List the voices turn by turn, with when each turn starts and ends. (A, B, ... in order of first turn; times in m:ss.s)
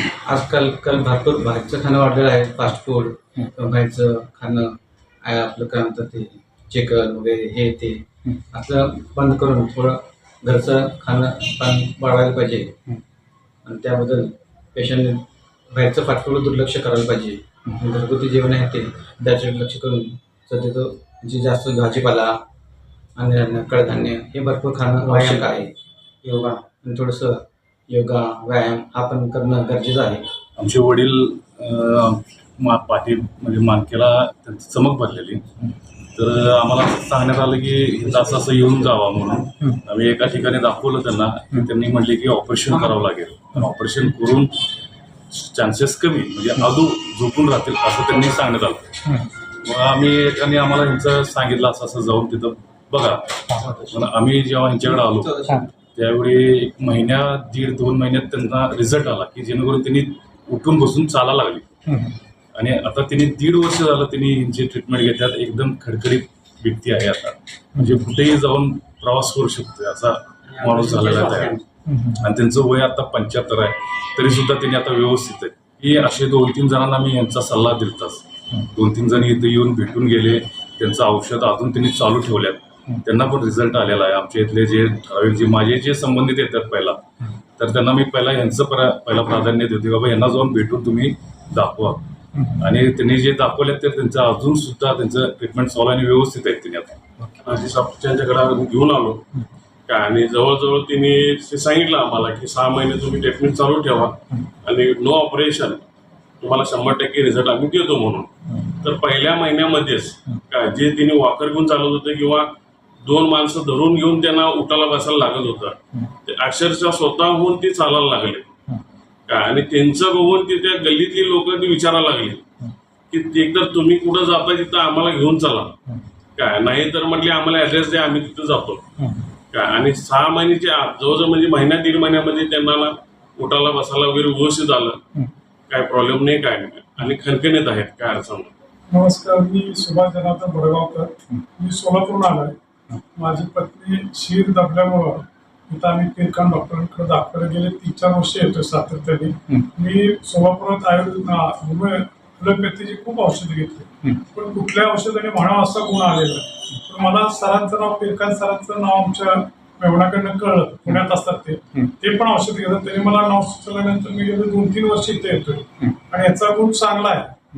0:00.2-0:12.7 A
0:13.6-0:22.4 A
0:23.2-0:25.7 A
0:25.0-0:25.6 B
0:26.2-0:26.6 B
0:26.8-0:30.2 A
0:30.6-0:35.4 C
0:36.2-0:44.5 C
0:45.3-0:48.8 C
0:49.6-0:55.4 C
0:53.6-0:54.0 A
0:54.8-0:55.7 A
0:56.0-1:01.7 C
1:02.6-1:11.6 C
1:10.5-1:11.6 B
1:12.1-1:27.0 C
1:27.6-1:37.0 C
1:37.4-1:39.2 D
1:39.9-1:45.8 D
1:46.4-1:48.3 D
1:48.8-1:52.5 D
1:53.0-1:58.5 D
1:59.3-2:02.4 D
2:03.1-2:05.7 D
2:06.4-2:08.8 D
2:09.5-2:15.0 D
2:15.7-2:18.5 D
2:18.9-2:22.6 E
2:23.2-2:47.3 E